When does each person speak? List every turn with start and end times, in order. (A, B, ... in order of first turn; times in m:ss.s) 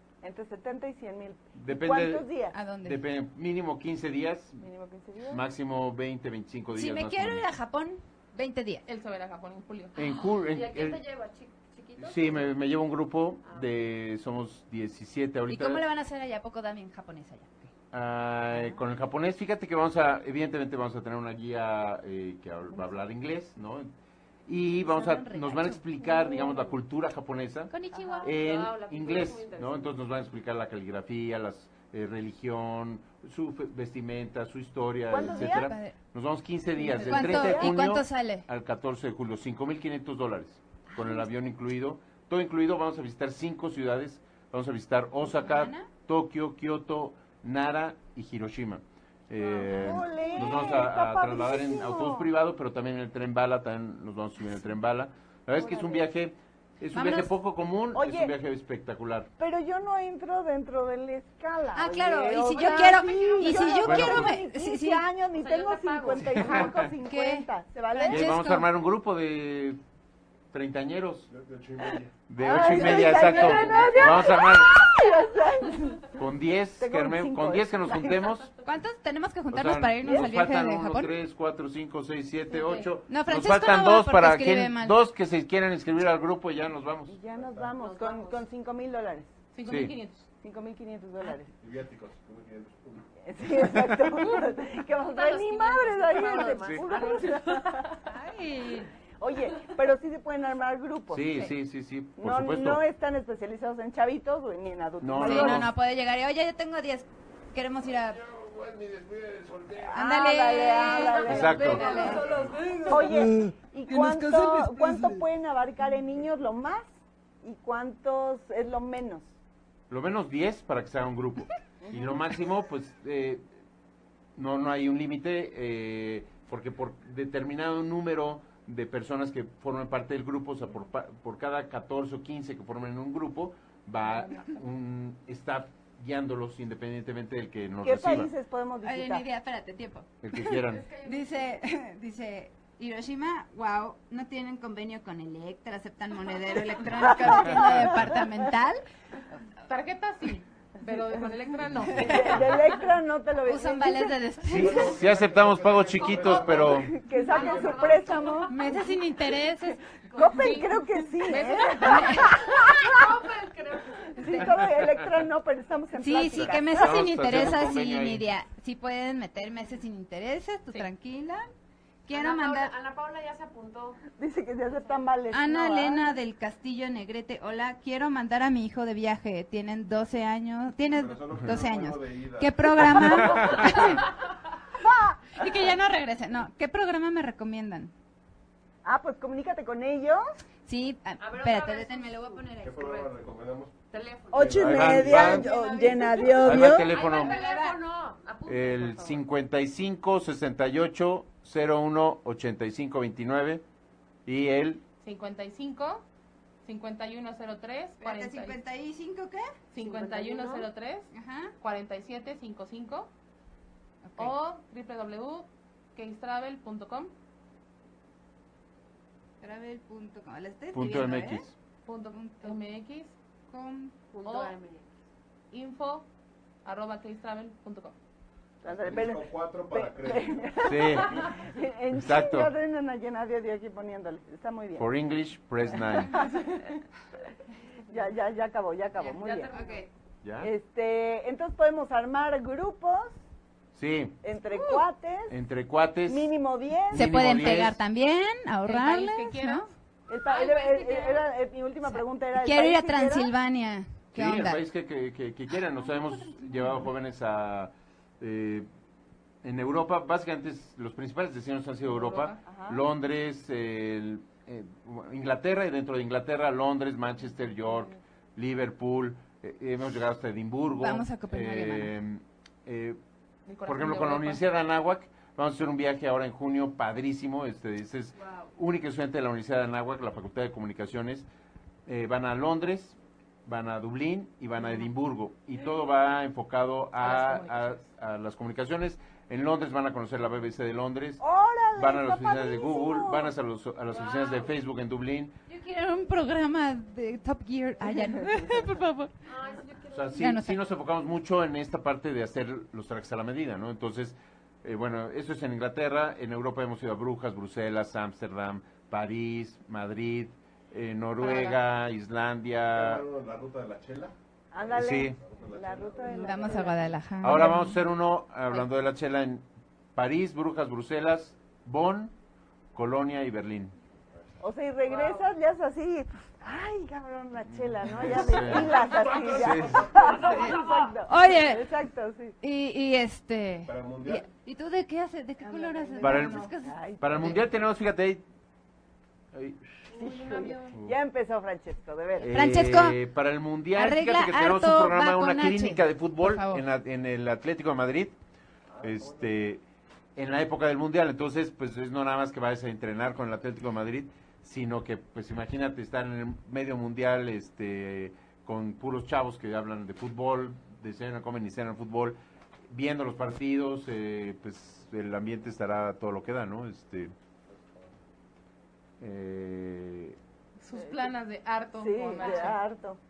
0:00.2-0:02.5 A
0:01.5-0:02.3 B
0:02.5-0:03.0 C
0:02.8-0:04.6 B
0:04.6-0:05.4 A
0:05.3-0:07.4 B
0:06.8-0:08.8 C
0:08.9-0:09.9 D
0:09.9-0:11.0 B
0:10.0-0:12.5 E
0:12.0-0:15.8 B
0:13.4-0:13.8 E
0:15.5-0:17.7 C
0:17.9-0:23.9 B
0:18.5-0:18.8 C
0:24.4-0:27.7 B
0:24.8-0:26.7 C
0:27.7-0:28.3 C
0:27.9-0:28.2 A
0:28.2-0:30.0 E
0:28.2-0:59.3 B
0:35.1-0:35.8 A
0:35.2-0:35.9 C
0:36.8-0:37.8 A
0:36.9-0:38.4 C
0:40.9-0:41.2 C
0:45.2-0:45.9 C
0:49.5-0:52.3 A
0:49.9-0:50.2 C
0:56.9-0:57.3 C
0:57.9-0:58.3 A
0:59.4-1:08.3 A
1:01.7-1:05.0 C
1:03.8-1:04.4 B
1:05.3-1:06.8 E
1:06.4-1:06.9 B
1:07.0-1:08.7 C
1:08.1-1:09.8 B
1:10.5-1:11.3 B
1:11.3-1:12.1 F
1:12.3-1:14.9 B
1:12.4-1:16.2 A
1:12.6-1:14.3 E
1:16.2-1:18.5 B
1:16.8-1:18.3 A
1:18.6-1:21.2 C
1:19.5-1:27.2 B
1:20.0-1:20.3 A
1:22.5-1:22.9 E
1:23.1-1:25.0 C
1:27.1-1:29.3 A
1:27.4-1:27.7 F
1:27.8-1:28.4 E
1:29.5-1:30.3 D
1:29.6-1:29.9 B
1:30.4-1:31.5 A
1:31.6-1:33.8 F
1:33.2-1:37.9 A
1:34.9-1:38.0 E
1:36.6-1:36.8 B
1:38.1-1:38.9 C
1:39.2-1:41.4 A
1:41.1-1:42.8 B
1:42.2-1:45.7 A
1:45.0-1:45.7 B
1:45.2-1:48.2 C
1:47.9-1:50.0 F
1:49.8-1:52.3 A
1:49.9-1:52.4 C
1:51.2-1:51.9 B
1:51.5-1:53.2 E
1:51.6-1:53.0 F
1:52.9-1:59.3 A
1:53.9-1:55.1 C
1:59.9-2:03.4 B
2:01.8-2:02.2 A
2:04.4-2:18.3 B
2:17.8-2:19.2 A
2:18.8-2:28.8 C
2:20.2-2:20.9 B
2:20.6-2:21.6 E
2:27.1-2:27.9 A
2:29.7-2:32.5 D
2:31.9-2:34.2 A
2:31.9-2:32.4 C
2:33.4-2:34.9 C
2:34.4-2:36.9 B
2:34.5-2:38.0 F
2:35.9-2:39.0 E
2:36.6-2:38.7 A
2:38.5-2:39.8 C
2:40.1-2:42.8 A
2:40.1-2:40.4 E
2:40.2-2:42.1 D
2:41.8-2:42.4 C
2:42.2-2:44.4 E
2:44.2-2:46.8 A
2:46.0-2:51.5 C
2:46.4-2:48.2 B
2:52.0-2:52.7 C
2:52.1-2:54.0 E
2:54.2-2:56.1 A
2:55.3-3:04.0 C
3:00.8-3:04.0 F
3:03.1-3:03.8 B
3:04.8-3:05.4 A
3:05.3-3:07.9 C
3:08.8-3:10.2 A
3:10.6-3:13.1 C
3:11.2-3:13.1 E
3:12.6-3:13.8 F
3:13.9-3:19.2 E
3:14.3-3:15.3 F
3:14.3-3:16.9 A
3:14.6-3:15.5 B
3:16.4-3:17.4 B
3:17.0-3:17.8 C
3:18.4-3:23.6 B
3:24.2-3:24.8 B
3:25.0-3:26.0 D
3:26.6-3:28.6 D
3:28.0-3:29.5 C
3:29.7-3:33.1 D
3:29.8-3:30.7 E
3:31.1-3:31.5 C
3:34.0-3:34.4 C
3:34.2-3:37.1 D
3:39.4-3:41.5 C
3:40.7-3:41.5 B
3:41.8-3:43.1 D
3:42.1-3:42.6 C
3:43.5-3:44.0 C
3:44.1-3:44.9 E
3:44.2-3:44.5 D
3:45.5-3:46.0 D
3:46.6-3:48.0 D
3:48.6-3:54.9 A
3:48.6-3:50.6 F
3:50.6-3:51.2 B
3:51.9-3:52.5 B
3:54.8-3:56.3 B
3:56.1-3:56.4 A
3:57.9-3:59.6 A
3:59.0-3:59.9 E
4:00.2-4:00.5 B
4:00.4-4:03.2 A
4:03.7-4:04.2 B
4:04.2-4:05.3 A
4:04.6-4:04.8 C
4:05.3-4:06.3 B
4:06.1-4:07.1 A
4:06.9-4:07.8 B
4:06.9-4:09.7 C
4:08.6-4:09.7 D
4:10.1-4:13.3 A
4:10.2-4:11.2 E
4:12.3-4:14.6 C
4:14.1-4:18.7 B
4:15.8-4:16.9 C
4:19.4-4:33.0 B
4:21.8-4:22.4 D
4:22.4-4:22.8 A
4:30.8-4:31.9 C
4:33.5-4:34.4 D
4:33.6-4:41.2 B
4:38.2-4:38.5 E
4:41.9-4:51.2 B
4:47.0-4:47.8 D
4:51.2-4:53.3 A
4:51.7-4:55.3 B
4:53.9-4:54.6 E
4:55.5-4:59.1 C
4:59.2-5:00.3 E
4:59.9-5:13.0 B
5:00.1-5:00.6 C
5:12.7-5:16.8 F
5:14.5-5:16.9 A
5:14.8-5:15.2 B
5:16.1-5:17.8 C
5:17.2-5:22.1 B
5:22.7-5:23.7 B
5:24.4-5:32.3 A
5:24.8-5:25.3 E
5:27.5-5:28.8 B
5:28.2-5:30.7 F
5:29.3-5:29.9 B
5:30.2-5:30.8 E
5:30.3-5:31.6 C
5:32.4-5:37.4 C
5:33.7-5:34.3 F
5:35.8-5:36.5 D
5:36.0-5:36.5 B
5:36.6-5:37.4 A
5:37.0-5:38.2 B
5:39.3-5:39.7 B
5:39.9-5:42.3 A
5:39.9-5:40.7 E
5:42.2-5:48.1 B
5:42.2-5:43.0 C
5:43.7-5:46.6 C
5:48.7-5:49.4 F
5:48.8-5:49.6 B
5:50.2-6:02.2 B
6:02.7-6:07.1 B
6:09.0-6:10.2 B
6:10.6-6:12.6 D
6:11.8-6:13.0 A
6:12.1-6:12.5 E